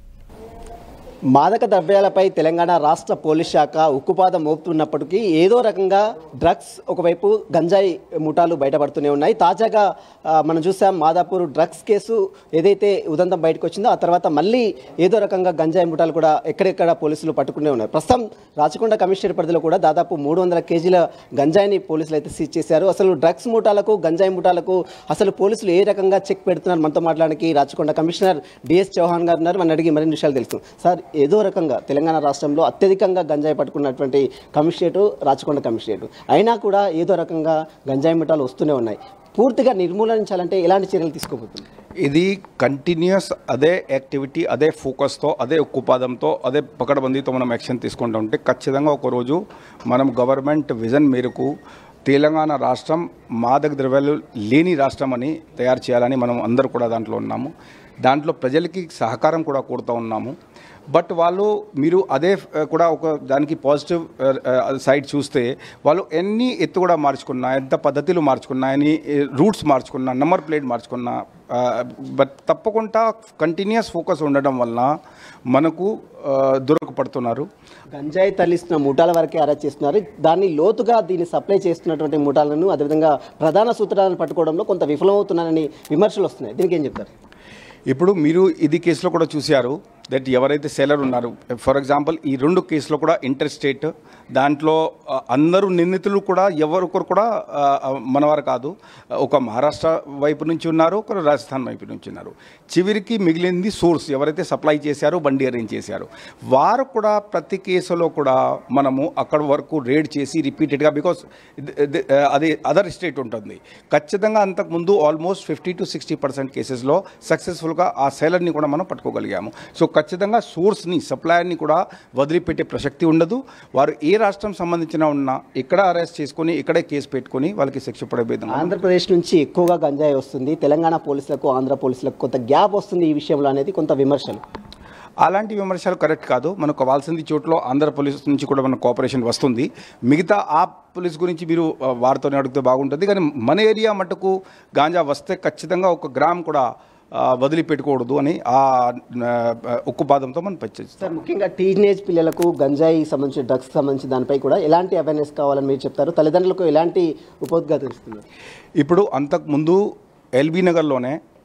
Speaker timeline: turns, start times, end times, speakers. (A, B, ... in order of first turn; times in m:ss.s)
0:01.3-0:41.6 A
0:42.0-0:51.5 B
0:52.1-0:57.5 B
0:58.0-1:00.3 B
1:00.9-1:14.9 B
1:15.5-1:17.5 B
1:17.9-1:27.1 A
1:27.9-2:08.7 B
2:08.5-2:14.4 A
2:15.2-2:31.1 B
2:31.0-2:38.2 A
2:38.8-2:39.8 B
2:40.4-2:41.2 B